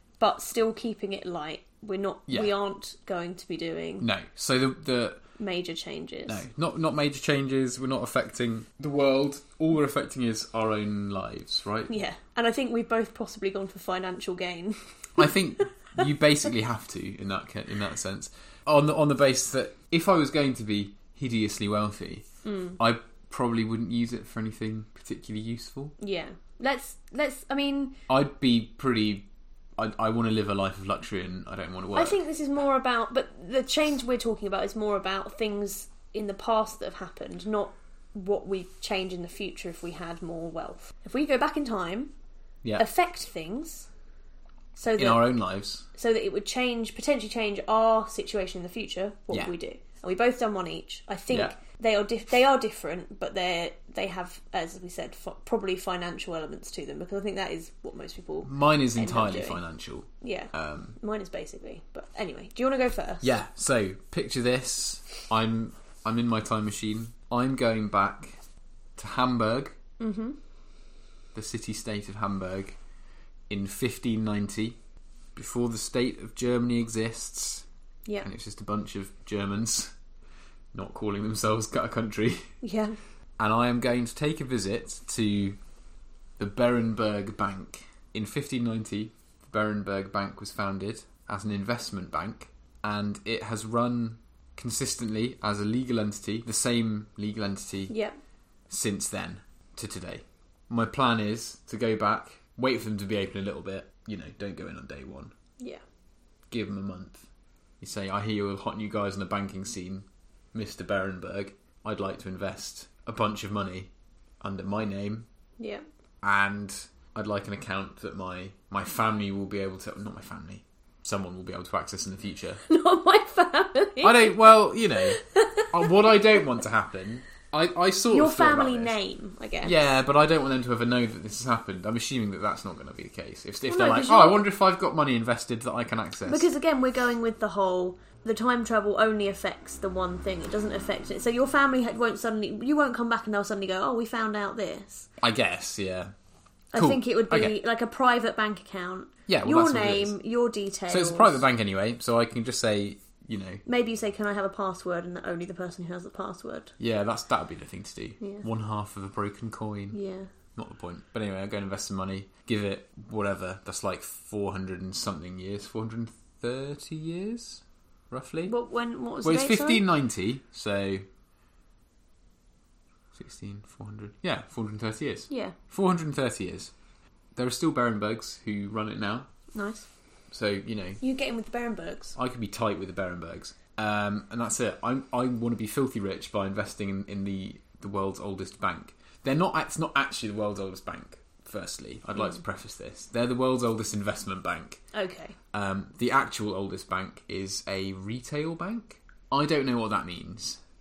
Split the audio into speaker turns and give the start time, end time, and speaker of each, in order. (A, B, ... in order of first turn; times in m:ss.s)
0:00.2-0:04.1 A
0:02.3-0:02.5 B
0:04.0-0:05.2 B
0:05.4-0:06.4 A
0:06.3-0:11.9 B
0:11.9-0:15.3 A
0:15.2-0:22.2 B
0:22.4-0:22.8 A
0:22.8-0:25.9 B
0:26.0-0:28.0 A
0:28.1-0:29.3 B
0:29.8-0:32.2 B
0:31.9-0:42.1 A
0:42.8-0:43.9 A
0:44.8-0:45.3 A
0:45.0-0:45.8 B
0:45.9-0:59.6 A
0:51.3-0:51.5 B
0:58.4-1:01.0 B
1:00.2-1:03.3 A
1:03.2-1:08.4 B
1:09.0-1:09.7 B
1:10.0-1:10.4 A
1:11.3-1:12.8 B
1:13.5-1:14.8 B
1:15.3-1:17.6 B
1:18.2-1:19.9 B
1:20.7-1:22.4 B
1:22.6-1:23.0 A
1:23.4-1:25.6 B
1:26.4-1:37.9 B
1:37.9-1:38.1 A
1:38.7-1:45.3 B
1:46.5-1:47.2 B
1:47.8-1:53.9 B
1:54.4-1:55.3 B
1:56.2-2:02.6 B
2:02.7-2:06.1 A
2:04.0-2:09.0 B
2:08.1-2:09.8 A
2:09.6-2:16.5 B
2:13.7-2:14.4 A
2:16.2-2:25.1 A
2:25.2-2:26.1 B
2:26.7-2:31.4 A
2:26.7-2:27.6 B
2:29.3-2:30.2 B
2:30.9-2:33.6 B
2:33.6-2:36.7 A
2:36.8-2:40.0 B
2:38.2-2:38.4 A
2:39.9-2:40.3 A
2:40.6-2:48.5 B
2:48.5-2:49.8 A
2:49.2-2:51.0 B
2:53.1-2:56.7 B
2:55.3-2:55.6 A
2:57.4-2:59.3 B
2:59.5-2:59.9 A
3:00.3-3:01.0 B
3:01.0-3:02.2 A
3:02.2-3:14.8 B
3:14.9-3:15.4 A
3:15.5-3:20.6 B